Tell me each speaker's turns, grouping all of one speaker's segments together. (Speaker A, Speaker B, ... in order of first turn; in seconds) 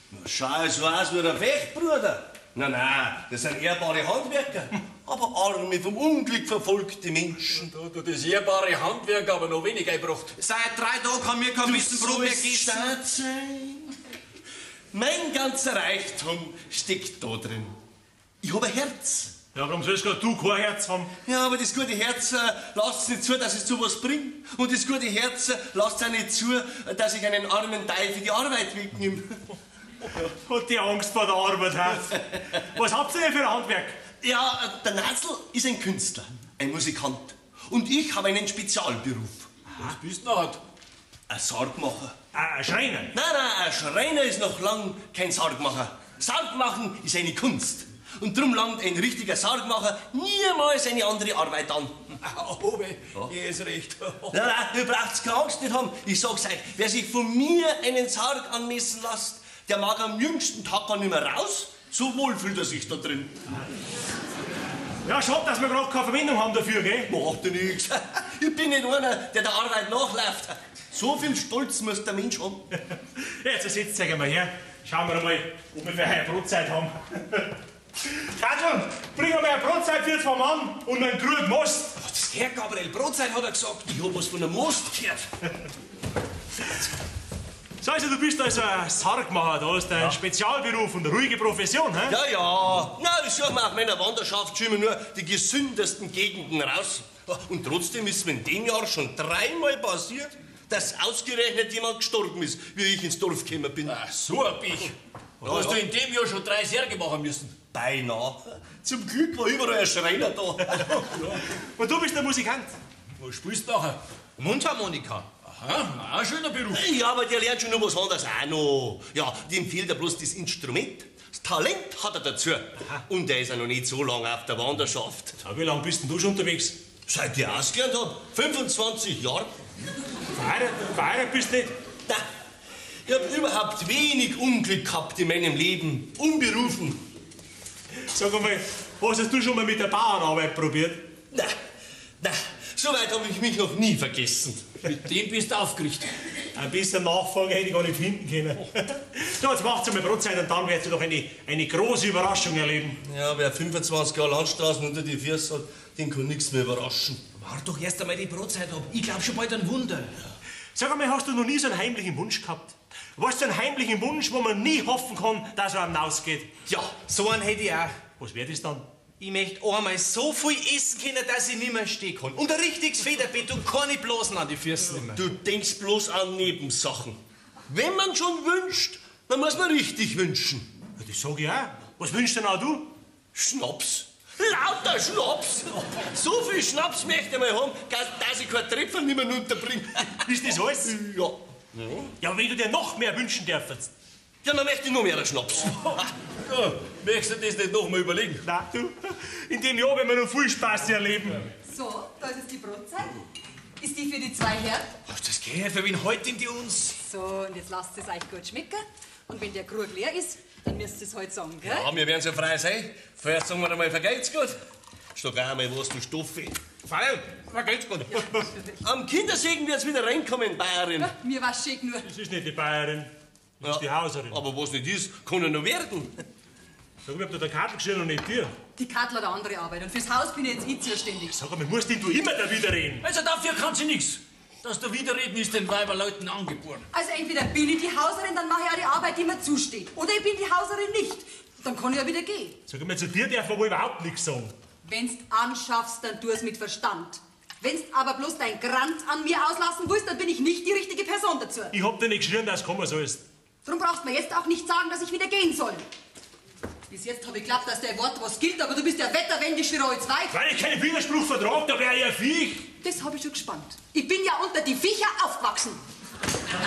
Speaker A: 0.1-7.7, 11.6-13.9, 14.9-17.8, 18.4-19.3, 21.3-29.4, 34.2-39.5, 41.3-42.1, 43.1-52.1, 54.3-63.4, 67.1-72.7, 82.2-85.3, 92.1-104.0, 105.4-105.9, 107.7-111.1, 116.7-125.4, 127.1-129.5, 133.1-137.0, 141.3-141.6, 142.2-144.7, 153.1-157.2, 175.1-180.7, 183.3-192.1, 194.4-196.1, 205.1-206.8, 211.6-214.6, 215.2-216.8, 218.8-221.1, 223.6-226.2
Speaker B: 7.4-10.3, 39.7-40.6, 52.2-54.4, 103.9-107.6, 111.1-111.4, 113.2-114.0, 115.5-116.8, 144.9-146.1, 196.4-198.4, 233.0-236.9
Speaker C: 10.4-13.0, 82.0-83.8, 114.4-115.3, 157.4-160.1, 166.7-168.0, 169.2-175.2, 216.9-218.2
Speaker D: 19.6-21.1, 30.3-34.0, 42.3-43.1, 65.0-67.1, 73.2-77.5, 78.1-82.0, 87.8-92.2, 111.6-112.8, 125.4-126.8, 130.4-131.7, 138.1-141.1, 146.6-153.0, 160.8-166.5, 168.2-168.9, 181.0-182.9, 190.2-190.9, 192.2-193.9, 198.4-201.4, 222.1-224.4, 227.1-228.5, 231.3-233.1, 242.7-244.5, 251.7-253.2, 260.3-262.7
Speaker E: 201.7-203.2, 203.8-204.9, 207.0-211.9, 221.0-222.1, 228.8-231.4, 236.9-242.6, 244.8-251.8, 253.7-255.9, 256.9-260.4, 262.8-265.8